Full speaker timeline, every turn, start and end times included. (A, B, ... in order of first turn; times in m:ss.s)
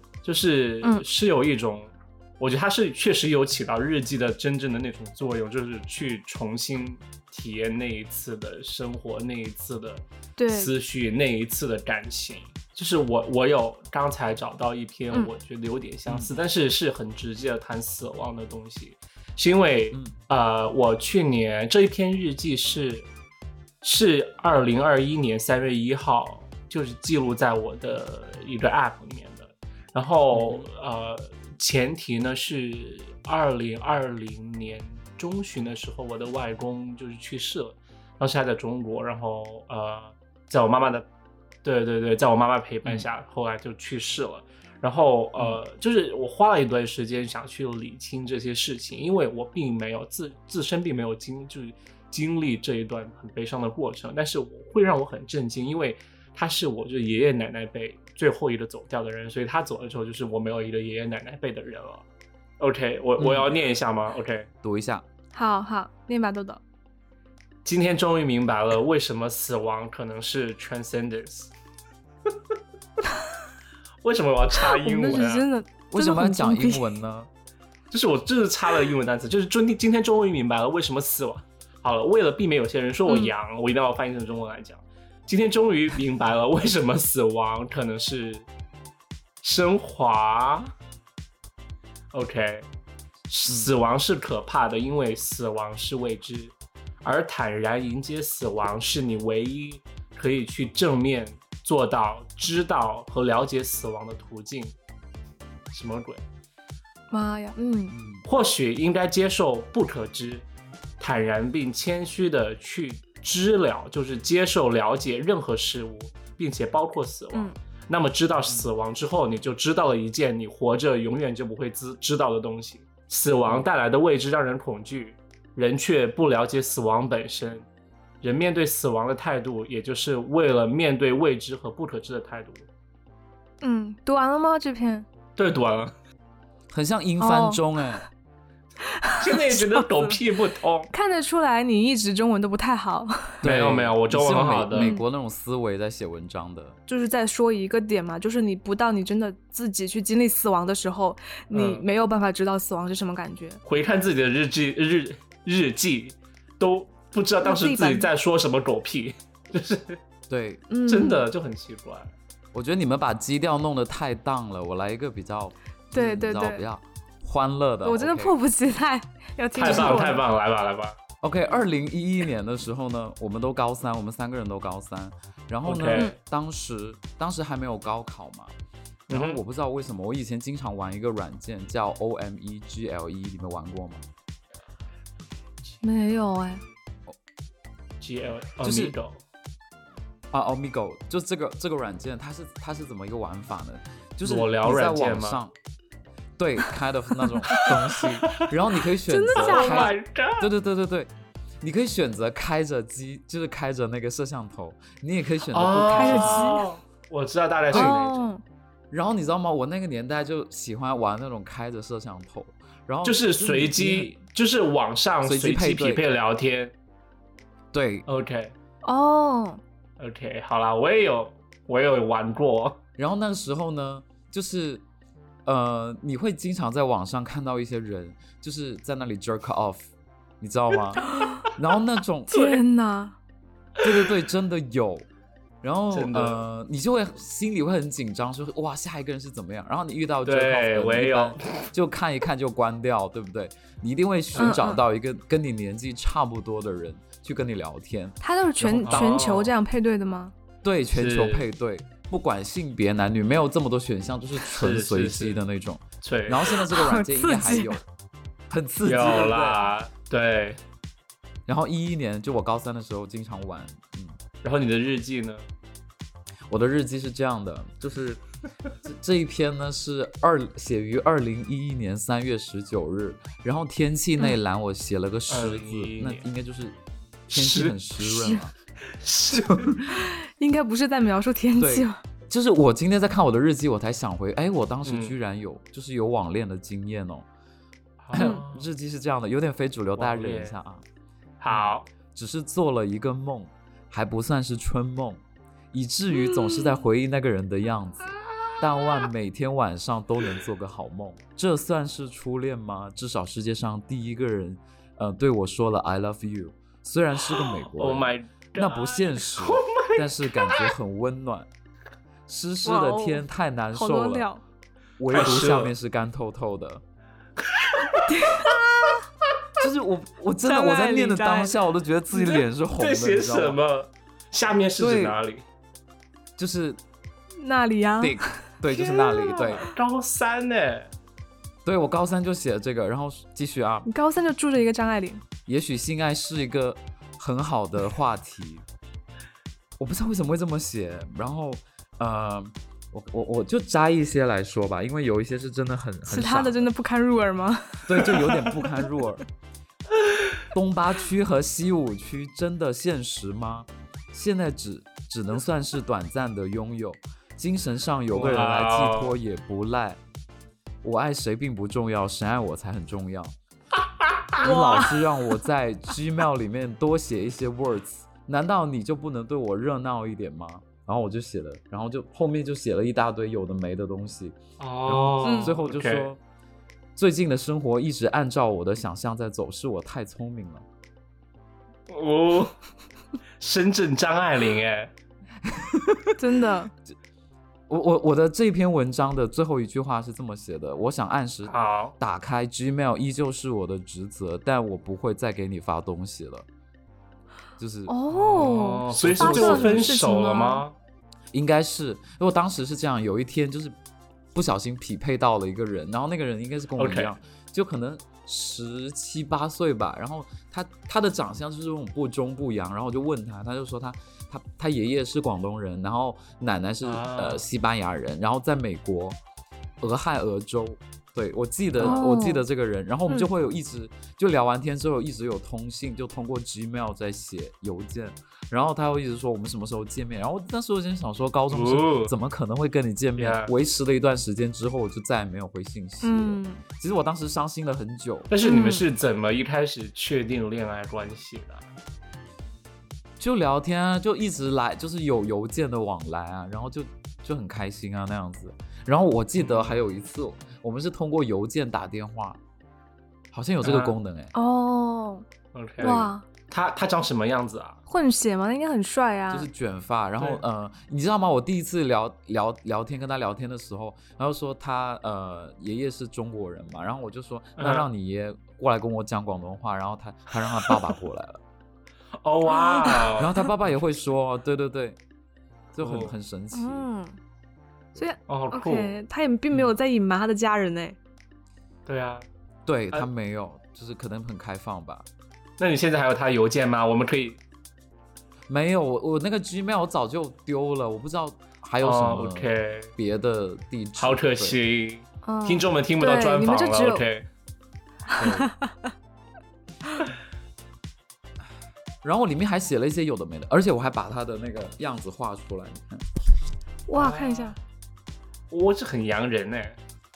0:00.2-0:23.1 A
0:10.4-0:10.7 B
0:16.1-0:16.3 C
0:23.8-0:41.1 A
0:30.3-0:30.7 C
0:41.6-1:02.0 A
1:02.6-1:04.5 A
1:03.2-1:03.5 C
1:04.6-1:05.0 C
1:05.3-1:06.6 B
1:07.6-1:11.5 A
1:14.0-1:15.4 A
1:14.7-1:16.9 B
1:15.9-1:17.3 C
1:17.9-1:28.5 A
1:29.4-1:30.7 A
1:32.1-1:32.7 A
1:33.3-1:44.7 A
1:45.7-1:46.2 A
1:47.1-1:48.0 B
1:47.9-1:48.2 C
1:48.2-1:50.5 A
1:51.0-2:07.7 A
2:08.2-2:12.7 A
2:13.6-2:15.1 B
2:15.4-2:15.9 A
2:16.7-2:18.0 C
2:17.2-2:17.6 B
2:19.0-2:20.2 B
2:19.2-2:20.9 A
2:20.9-2:23.4 B
2:23.4-2:26.8 C
2:23.4-2:24.9 A
2:24.8-2:25.0 B
2:26.9-2:33.6 B
2:31.5-2:31.8 A
2:33.6-2:40.0 A
2:37.4-2:38.1 B
2:40.3-2:40.6 C
2:40.7-2:41.3 B
2:40.9-2:42.1 A
2:42.5-2:48.4 C
2:45.9-2:46.6 B
2:47.8-2:50.2 B
2:49.6-2:51.0 A
2:51.2-2:58.5 C
2:55.6-2:56.1 A
2:59.1-2:59.4 A
2:59.1-3:04.0 C
3:05.8-3:06.6 B
3:08.0-3:09.2 A
3:08.6-3:09.0 C
3:10.3-3:15.5 C
3:14.2-3:15.4 A
3:16.4-3:21.1 C
3:17.5-3:18.5 A
3:19.1-3:20.0 B
3:19.4-3:20.5 A
3:21.6-3:26.5 C
3:25.5-3:28.3 A
3:25.9-3:26.7 B
3:27.7-3:28.0 C
3:27.7-3:28.4 B
3:28.9-3:34.1 C
3:33.0-3:36.7 A
3:35.2-3:36.0 C
3:37.7-3:38.0 C
3:38.1-3:38.5 A
3:38.8-3:39.6 B
3:40.0-3:42.8 A
3:43.0-3:44.8 C
3:45.5-3:49.9 C
3:50.4-3:52.3 C
3:51.0-3:51.5 B
3:52.3-3:53.2 B
3:52.3-3:52.6 A
3:53.8-3:55.1 C
3:55.6-4:09.2 C
3:55.9-3:56.4 A
4:00.2-4:01.7 A
4:04.4-4:04.8 B
4:08.2-4:10.3 B
4:08.8-4:09.5 A
4:10.6-4:17.8 C
4:10.9-4:11.4 A
4:14.5-4:15.4 A
4:16.0-4:16.5 A
4:16.7-4:17.8 B
4:18.5-4:19.6 C
4:18.8-4:20.6 A
4:21.5-4:24.2 C
4:24.4-4:25.4 A
4:26.5-4:28.2 C
4:28.8-4:36.8 C
4:35.3-4:36.2 A
4:37.3-4:38.4 A
4:37.3-4:38.5 C
4:38.9-4:39.8 A
4:39.3-4:39.8 C
4:39.9-4:42.0 B
4:41.6-4:47.3 C
4:44.8-4:45.2 A
4:48.0-4:48.7 A
4:48.1-4:50.8 C
4:48.2-4:48.4 B
4:50.0-4:50.6 A
4:51.4-4:51.9 A
4:51.5-4:55.2 C
4:55.7-5:11.5 C
5:07.3-5:10.7 A
5:12.3-5:14.3 C
5:12.6-5:14.4 B
5:15.0-5:16.8 C
5:15.1-5:15.7 A
5:17.5-5:18.0 A
5:18.0-5:19.0 B
5:19.6-5:23.6 C
5:20.4-5:21.6 B
5:22.2-5:25.4 A
5:24.8-5:25.2 C
5:26.4-5:26.8 C
5:27.4-5:28.4 B
5:28.0-5:29.6 C
5:28.7-5:30.9 A
5:31.6-5:33.9 C
5:33.9-5:35.2 B
5:35.5-5:38.6 C
5:39.8-5:46.7 C
5:46.1-5:48.4 B
5:47.9-5:49.2 C
5:50.5-6:00.0 C
5:58.1-5:59.2 A
6:00.8-6:03.4 C
6:04.4-6:16.2 C
6:04.4-6:04.9 B
6:14.6-6:16.1 A
6:15.2-6:15.5 B
6:17.0-6:20.6 C
6:21.9-6:22.5 A
6:23.4-6:24.9 A
6:25.4-6:26.2 C
6:26.2-6:26.7 B
6:27.7-6:36.5 C
6:31.5-6:32.0 A
6:37.6-6:38.0 C
6:37.9-6:40.6 B
6:38.1-6:40.8 A
6:38.9-6:40.0 C
6:41.3-6:43.8 C
6:44.3-6:59.2 C
6:46.8-6:47.1 A
6:56.8-6:57.4 A
6:59.8-7:18.3 C
7:01.8-7:02.4 B
7:11.5-7:12.1 A
7:13.2-7:13.5 A
7:16.0-7:16.6 B
7:18.3-7:21.6 A
7:18.4-7:18.8 B
7:23.2-7:32.4 C
7:29.4-7:29.8 A
7:33.3-7:34.3 C
7:33.6-7:34.0 A
7:34.3-7:35.2 B
7:35.5-7:37.8 A
7:35.8-7:36.2 B
7:37.9-7:39.5 B
7:39.3-7:51.4 C
7:47.6-7:47.9 A
7:52.2-7:53.4 A
7:52.6-7:53.1 B
7:53.2-7:55.0 C
7:55.7-7:56.8 C
7:55.8-7:56.1 A
7:56.5-7:57.2 B
7:58.0-8:01.0 B
7:58.3-7:59.0 A
8:01.9-8:02.3 A
8:02.7-8:05.1 C
8:05.6-8:07.4 A
8:08.5-8:14.6 C
8:11.8-8:12.9 A
8:14.0-8:17.3 A
8:15.2-8:17.1 B
8:18.1-8:18.8 B
8:18.2-8:18.5 C
8:22.0-8:26.0 C
8:26.9-8:27.6 B
8:26.9-8:27.6 A
8:28.5-8:29.8 A